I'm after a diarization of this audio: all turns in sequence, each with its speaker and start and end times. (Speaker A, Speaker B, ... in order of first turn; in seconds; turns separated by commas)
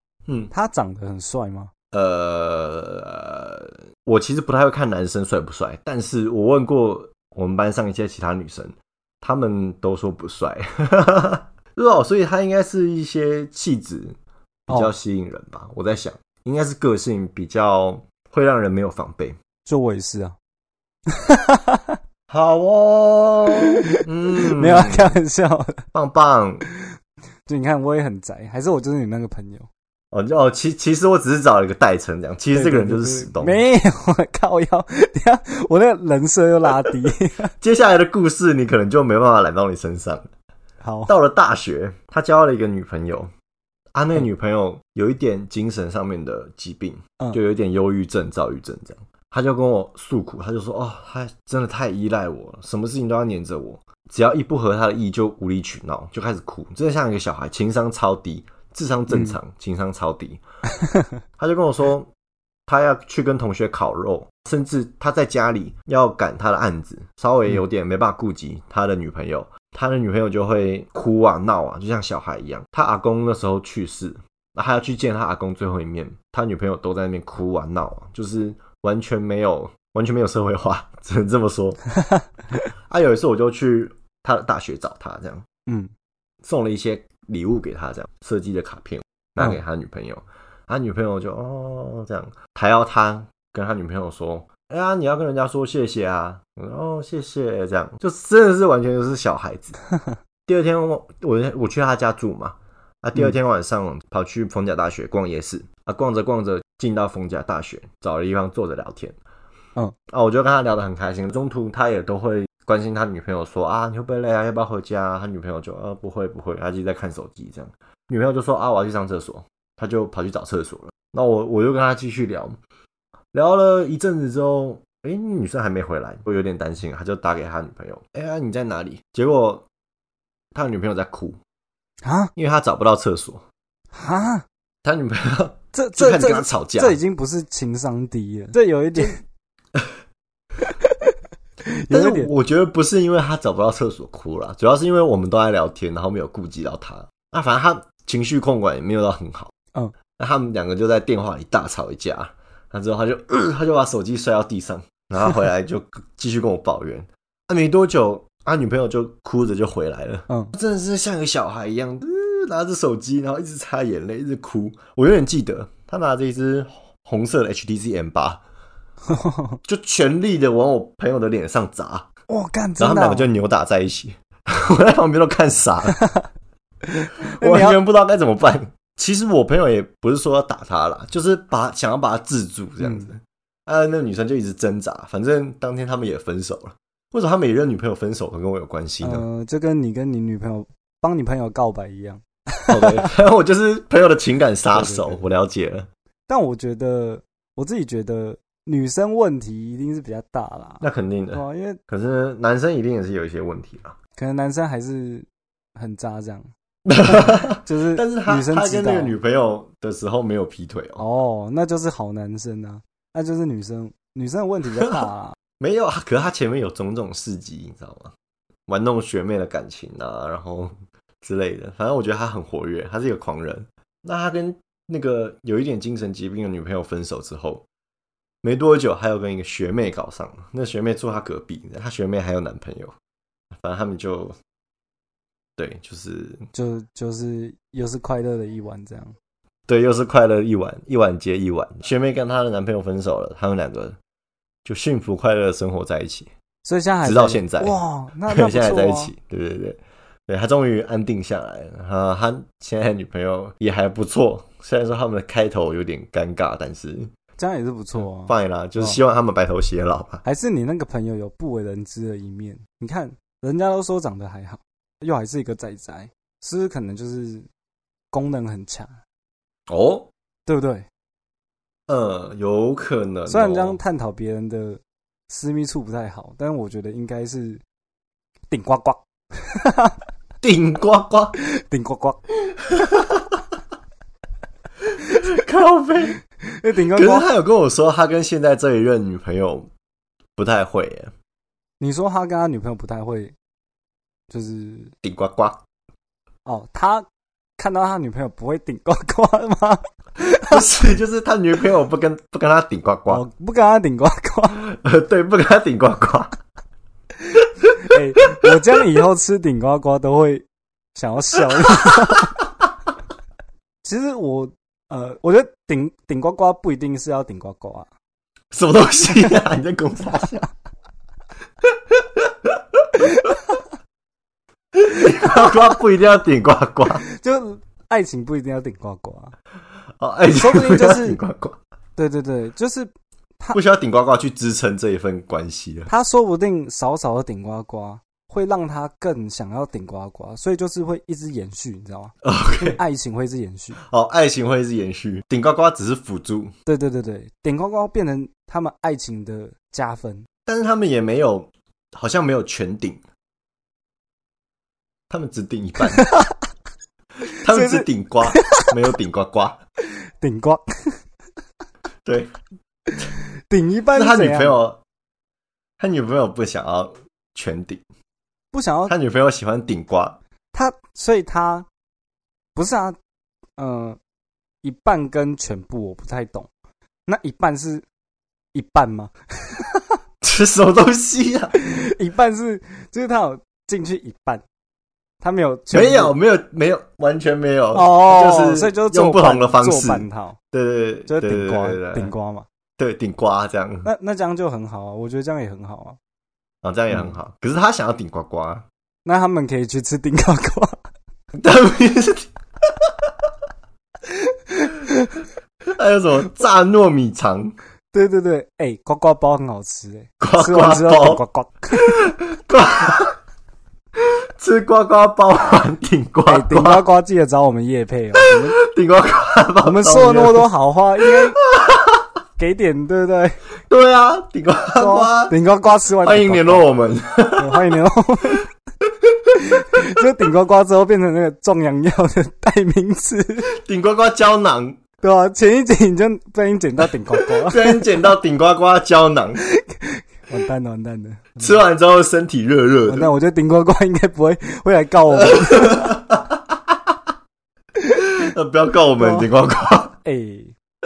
Speaker A: 0.3-0.5, Speaker B: 0.5-1.7, Speaker A: 1.9-14.2, Speaker A: 14.7-19.4, Speaker B: 19.6-20.4, Speaker B: 21.1-22.0, Speaker A: 22.3-25.1, Speaker B: 23.6-25.8, Speaker A: 25.9-26.6, Speaker B: 27.5-29.7, Speaker A: 30.1-33.6, Speaker B: 32.5-37.5, Speaker A: 37.6-40.3, Speaker B: 40.8-41.1, Speaker A: 41.1-43.3, Speaker A: 43.9-60.4, Speaker B: 59.1-59.4, Speaker B: 60.8-61.1, Speaker A: 61.4-62.1, Speaker A: 62.7-81.8, Speaker A: 82.9-85.4, Speaker B: 85.7-85.9, Speaker A: 86.4-99.8, Speaker A: 100.5-109.2, Speaker A: 110.1-122.6, Speaker A: 123.3-129.7, Speaker A: 130.5-131.4, Speaker B: 132.0-132.3, Speaker A: 132.3-133.4, Speaker B: 133.9-134.4, Speaker A: 134.8-137.0, Speaker B: 135.7-139.2, Speaker B: 140.6-141.1, Speaker B: 141.7-142.3, Speaker A: 141.9-149.5, Speaker A: 150.2-168.4, Speaker B: 160.3-160.5, Speaker B: 169.1-169.6, Speaker A: 169.6-172.1, Speaker B: 172.3-173.3, Speaker A: 172.8-176.0, Speaker B: 176.9-177.8, Speaker A: 177.4-189.2, Speaker B: 182.8-183.1, Speaker B: 189.0-193.1, Speaker A: 192.7-195.9, Speaker B: 194.7-195.2, Speaker B: 196.3-201.8, Speaker A: 200.8-203.9, Speaker B: 204.2-206.5, Speaker A: 206.8-211.0, Speaker B: 207.0-209.2, Speaker B: 211.0-215.3, Speaker A: 215.6-218.1, Speaker A: 218.7-227.6, Speaker A: 228.4-232.9, Speaker A: 233.6-234.3, Speaker A: 235.6-236.5, Speaker B: 236.5-239.1, Speaker A: 239.7-244.0, Speaker A: 244.6-246.3, Speaker B: 246.6-249.1, Speaker A: 247.0-247.8, Speaker A: 248.3-257.1, Speaker B: 257.4-259.0, Speaker A: 258.3-260.2, Speaker B: 260.2-267.5, Speaker B: 268.1-269.0, Speaker A: 269.7-270.1, Speaker B: 270.5-270.9, Speaker A: 271.9-273.8, Speaker B: 273.3-277.6, Speaker B: 278.5-280.0, Speaker A: 280.4-281.4, Speaker B: 281.4-282.2, Speaker A: 282.7-283.2, Speaker A: 285.0-286.2, Speaker B: 285.1-285.4, Speaker B: 286.4-287.3, Speaker A: 286.9-289.7, Speaker A: 290.4-291.1, Speaker B: 291.8-293.3, Speaker B: 294.3-294.9, Speaker A: 295.0-295.6, Speaker B: 296.4-297.1, Speaker B: 297.6-300.6, Speaker A: 300.4-303.2, Speaker B: 303.1-304.6, Speaker A: 304.6-306.3, Speaker B: 307.8-312.4, Speaker A: 308.4-308.8, Speaker A: 311.8-312.3, Speaker B: 313.8-317.9, Speaker A: 318.5-320.5, Speaker A: 321.9-323.2, Speaker B: 323.0-323.6, Speaker A: 324.7-327.0, Speaker B: 325.0-325.6, Speaker B: 327.0-329.3, Speaker A: 330.0-331.6, Speaker B: 330.3-331.2, Speaker B: 332.0-333.6, Speaker A: 333.5-335.9, Speaker B: 335.9-343.8, Speaker A: 342.2-342.8, Speaker A: 343.8-346.5, Speaker B: 346.6-350.3, Speaker A: 350.5-353.0, Speaker A: 355.1-356.1, Speaker B: 355.8-356.3, Speaker A: 357.3-359.6, Speaker B: 357.4-358.7, Speaker B: 360.2-361.0, Speaker A: 362.0-362.3, Speaker B: 362.9-364.6, Speaker A: 363.9-364.8, Speaker A: 365.8-367.8, Speaker B: 368.5-368.9, Speaker A: 368.9-370.2, Speaker B: 370.5-371.7, Speaker B: 372.5-373.0, Speaker B: 373.6-374.0, Speaker B: 374.6-376.5, Speaker B: 377.1-377.9, Speaker B: 378.5-379.9, Speaker A: 380.2-381.5, Speaker B: 381.5-384.4, Speaker B: 385.2-386.1, Speaker A: 385.7-392.1, Speaker B: 387.7-390.4, Speaker B: 391.1-392.4, Speaker A: 392.8-393.9, Speaker B: 393.8-396.0, Speaker A: 396.6-398.6, Speaker B: 399.0-400.8, Speaker A: 401.3-403.0, Speaker B: 404.1-405.2, Speaker A: 405.7-407.5, Speaker B: 407.9-412.1, Speaker A: 410.2-411.2, Speaker A: 411.7-413.1, Speaker A: 414.4-416.8, Speaker B: 416.2-418.6, Speaker A: 418.2-420.5, Speaker B: 419.6-421.4, Speaker A: 421.0-422.0, Speaker B: 422.4-423.4, Speaker A: 423.7-425.3, Speaker B: 424.7-426.7, Speaker A: 426.0-427.7, Speaker B: 427.4-428.5, Speaker B: 429.4-433.5, Speaker A: 433.5-434.8, Speaker B: 435.0-437.9, Speaker A: 437.1-439.4, Speaker B: 439.4-441.6, Speaker A: 441.4-443.1, Speaker B: 442.9-446.0, Speaker A: 445.1-447.0, Speaker B: 447.8-448.2, Speaker A: 448.1-449.9, Speaker B: 449.0-449.3, Speaker B: 450.0-450.5